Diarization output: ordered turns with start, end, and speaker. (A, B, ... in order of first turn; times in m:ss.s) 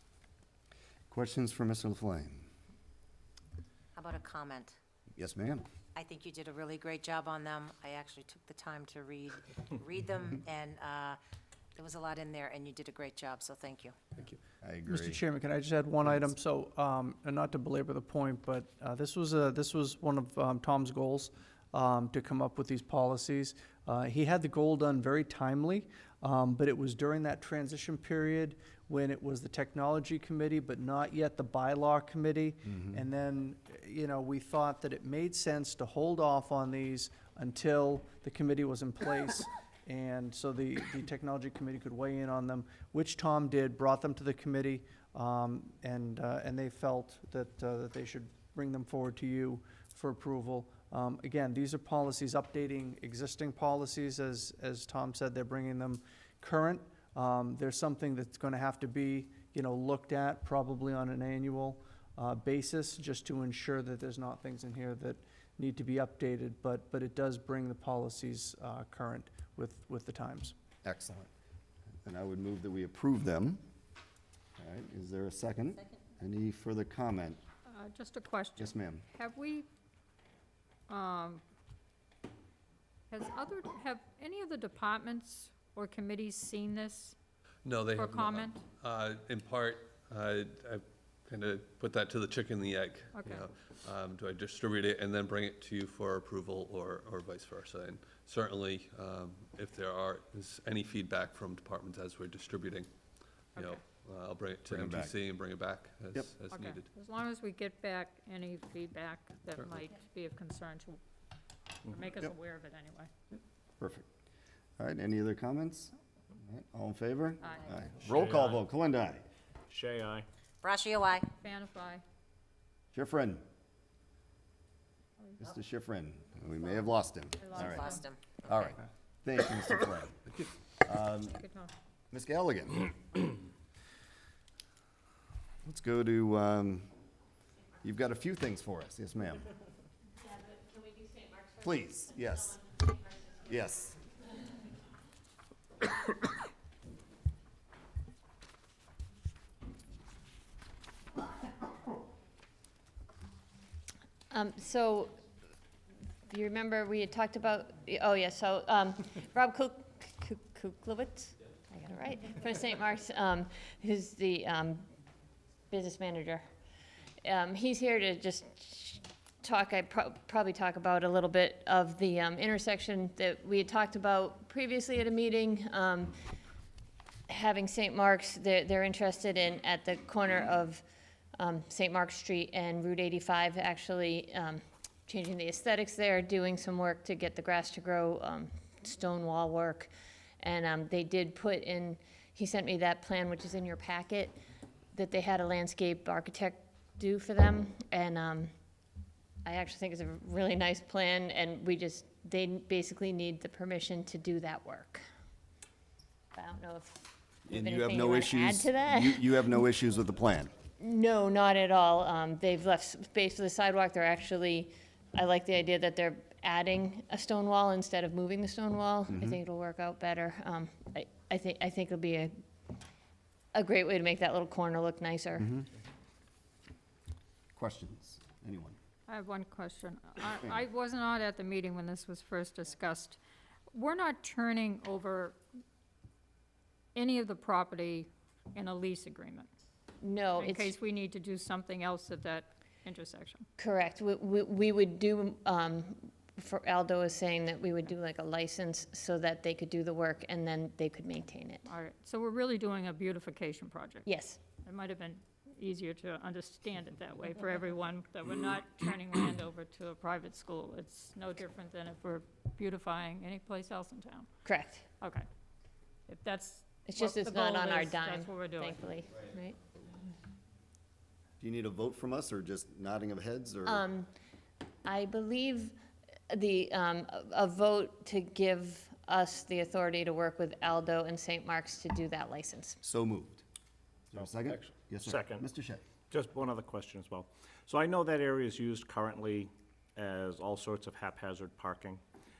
0:01.1-0:02.5 A
0:04.0-0:04.8 B
0:05.2-0:05.6 A
0:05.9-0:11.2 B
0:11.8-0:14.0 B
0:14.6-0:15.2 A
0:14.9-1:10.5 C
0:16.0-0:16.3 A
1:10.8-1:11.3 A
1:12.0-1:13.6 A
1:14.6-1:17.4 A
1:17.7-1:19.7 D
1:18.6-1:19.0 A
1:20.9-1:21.4 D
1:23.1-1:27.1 D
1:27.6-1:42.9 E
1:27.9-1:28.6 D
1:33.1-1:33.5 D
1:43.5-1:46.9 E
1:44.7-1:45.1 A
1:46.5-1:51.0 D
1:51.9-1:53.1 D
1:53.8-1:54.1 A
1:54.8-1:55.9 A
1:56.4-1:59.2 A
1:57.4-1:57.8 D
1:58.0-1:58.6 F
1:59.7-2:00.3 F
2:00.6-2:01.3 B
2:01.4-2:02.0 D
2:02.9-2:03.4 A
2:05.4-2:07.9 A
2:07.4-2:08.0 D
2:07.5-2:08.2 B
2:08.4-2:10.2 A
2:10.8-2:11.4 A
2:11.2-2:11.7 D
2:12.1-2:13.0 A
2:15.6-2:16.9 A
2:17.8-2:19.4 A
2:21.5-2:24.0 A
2:34.3-2:35.2 G
2:36.3-2:44.9 G
2:45.7-2:46.4 G
2:47.2-2:56.2 G
2:57.3-3:00.8 G
3:01.4-3:14.3 G
3:14.9-3:18.5 G
3:19.4-3:25.0 G
3:26.3-3:29.4 G
3:27.5-3:30.5 A
3:30.8-3:42.3 G
3:39.1-3:39.4 A
3:43.5-3:45.5 G
3:47.6-3:48.8 A
3:49.1-3:53.2 D
3:53.7-3:55.4 D
3:56.9-3:59.5 D
4:00.0-4:00.7 G
4:00.3-4:03.4 D
4:03.6-4:11.7 G
4:11.6-4:14.1 D
4:14.0-4:14.4 G
4:14.6-4:24.3 D
4:24.4-4:24.8 G
4:26.1-4:28.8 D
4:26.8-4:29.6 G
4:31.4-4:33.8 A
4:33.6-4:34.1 G
4:34.8-4:35.7 G
4:36.3-4:42.8 G
4:42.8-4:43.4 A
4:44.1-4:45.8 A
4:44.2-4:45.5 F
4:46.1-4:52.0 F